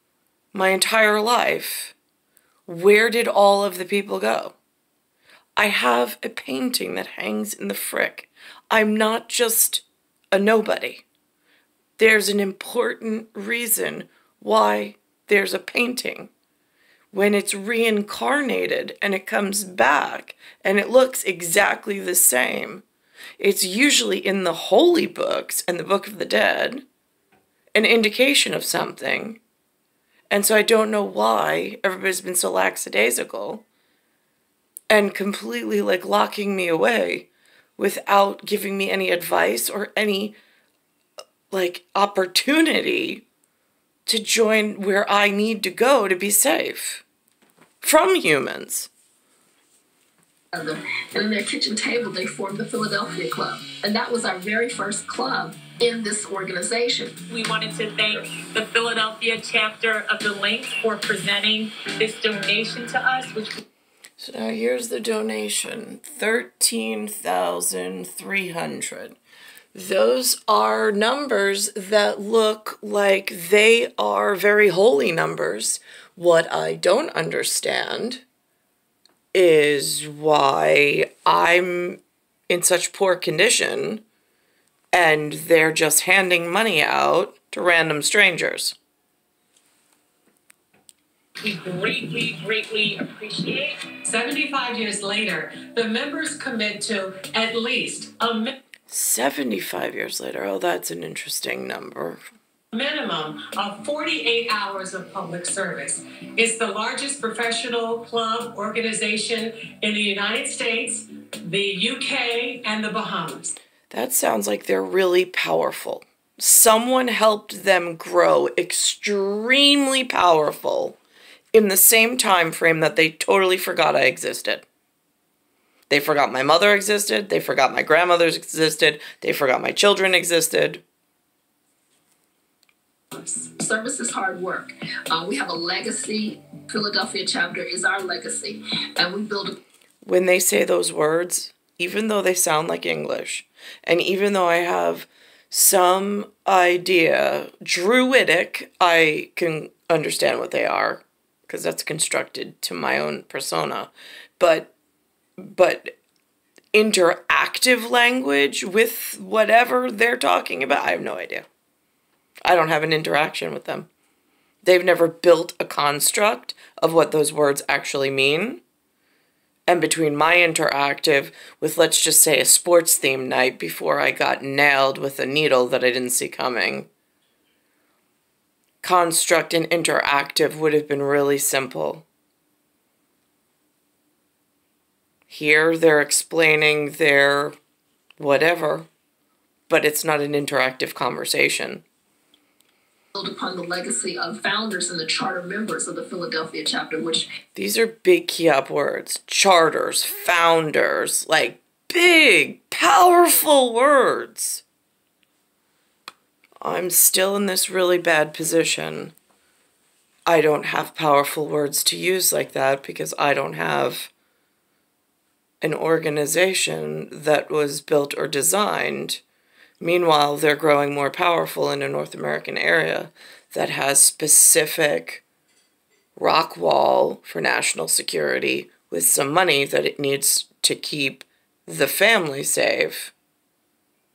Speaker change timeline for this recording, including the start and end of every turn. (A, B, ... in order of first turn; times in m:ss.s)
0:00.5-0:01.9 A
0:02.7-0:04.6 A
0:05.6-0:11.0 A
0:12.0-0:16.3 A
0:17.1-0:22.8 A
0:23.4-0:26.8 A
0:27.7-0:29.4 A
0:30.3-0:33.6 A
0:34.9-0:40.4 A
0:41.5-0:43.2 A
0:44.0-0:47.0 A
0:47.8-0:48.9 A
0:50.5-0:57.2 B
0:57.3-1:03.6 C
1:04.2-1:09.2 A
1:09.7-1:18.2 A
1:19.3-1:24.0 A
1:24.9-1:28.7 A
1:31.4-1:33.8 C
1:34.0-1:38.5 D
1:38.9-1:42.2 A
1:42.7-1:53.5 D
1:53.9-2:01.0 A
2:01.5-2:04.6 A
2:05.9-2:10.8 A
2:13.1-2:19.6 B
2:20.0-2:34.7 A
2:35.4-2:35.9 A
2:36.7-2:41.4 A
2:42.4-2:43.9 A
2:44.6-2:48.6 A
2:49.7-2:56.9 A
2:58.8-3:02.0 A
3:05.3-3:07.5 A
3:08.2-3:08.9 A
3:09.7-3:11.8 A
3:13.1-3:17.3 B
3:17.5-3:24.6 A
3:26.6-3:29.1 A
3:30.2-3:34.1 A
3:35.6-3:39.2 A
3:39.8-3:45.2 A
3:46.2-3:53.1 A